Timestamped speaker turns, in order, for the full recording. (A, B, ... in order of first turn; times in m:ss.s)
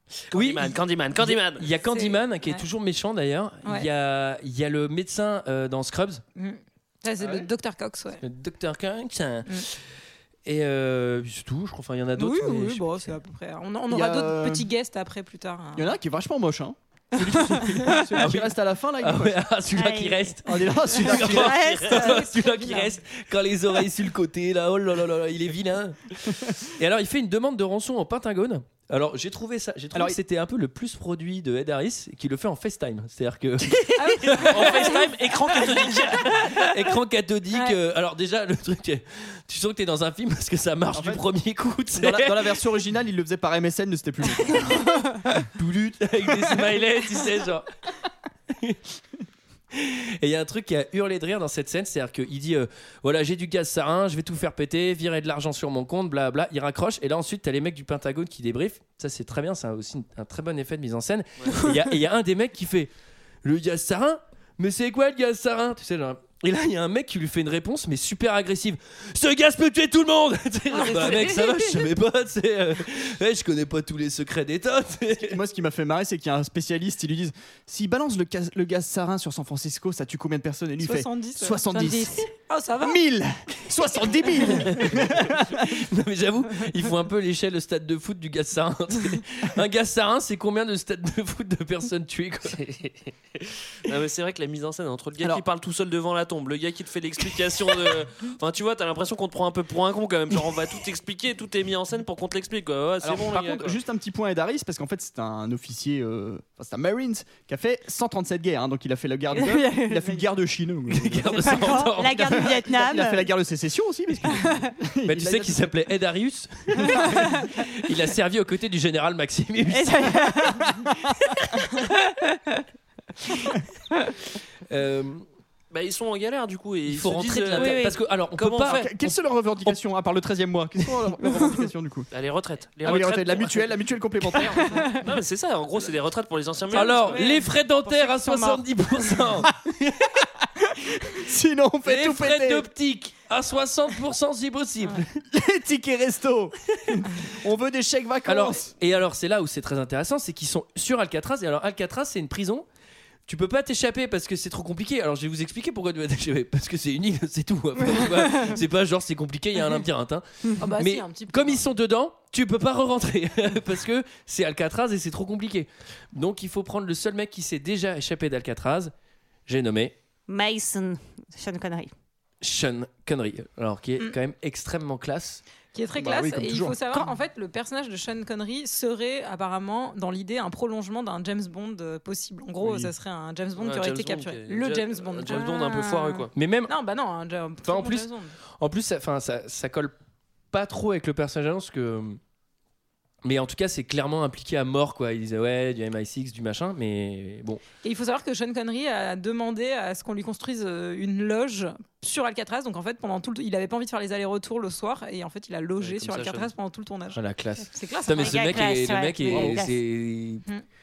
0:00.3-0:01.7 A
0:00.3-0:06.2 B
0:01.9-0:02.6 C
0:06.4-0:08.2 C
0:08.2-0:09.8 B
0:10.4-0:13.0 B
0:12.2-0:15.9 C
0:13.9-0:14.7 D
0:15.8-0:19.4 D
0:17.6-0:18.0 C
0:18.2-0:34.9 B
0:19.7-0:20.4 E
0:20.5-0:21.8 D
0:21.1-0:22.2 E
0:21.3-0:21.7 A
0:21.9-0:22.9 C
0:34.0-0:35.1 C
0:34.3-0:36.5 A
0:36.2-0:42.6 B
0:40.9-0:41.2 D
0:42.0-0:45.3 D
0:45.6-0:47.7 B
0:48.5-0:48.8 B
0:49.7-1:02.9 B
1:03.4-1:15.4 B
1:10.8-1:11.5 C
1:15.2-1:25.7 D
1:20.8-1:23.0 C
1:25.6-1:32.6 B
1:32.5-1:43.8 A
1:43.0-1:55.7 D
1:49.4-1:50.2 E
1:50.9-1:52.4 B
1:51.3-1:53.3 E
1:54.3-1:54.7 E
1:55.1-2:00.0 B
1:56.8-1:57.2 D
1:59.7-2:02.5 E
2:00.2-2:01.0 D
2:04.7-2:05.3 B
2:05.7-2:08.9 A
2:06.9-2:09.8 B
2:07.6-2:08.0 E
2:08.6-2:12.1 D
2:11.3-2:11.6 E
2:12.1-2:13.7 A
2:12.8-2:14.9 D
2:14.6-2:15.0 E
2:14.9-2:17.2 A
2:16.7-2:20.2 B
2:16.8-2:18.6 E
2:17.1-2:17.4 C
2:20.6-2:22.7 D
2:21.8-2:25.2 B
2:25.3-2:28.7 D
2:28.3-2:32.7 B
2:33.3-2:48.9 B
2:40.6-2:41.6 C
2:49.5-2:50.0 B
2:50.3-2:51.9 E
2:52.4-2:55.4 B
2:55.7-3:05.8 C
2:56.0-2:56.8 D
3:02.6-3:02.9 D
3:03.6-3:06.3 A
3:05.3-3:06.3 E
3:06.4-3:06.7 B
3:06.7-3:08.4 C
3:07.6-3:09.9 B
3:10.5-3:12.2 B
3:13.2-3:17.6 B
3:17.8-3:28.6 C
3:25.8-3:26.5 A
3:27.1-3:30.4 B
3:28.1-3:29.8 E
3:29.3-3:29.5 C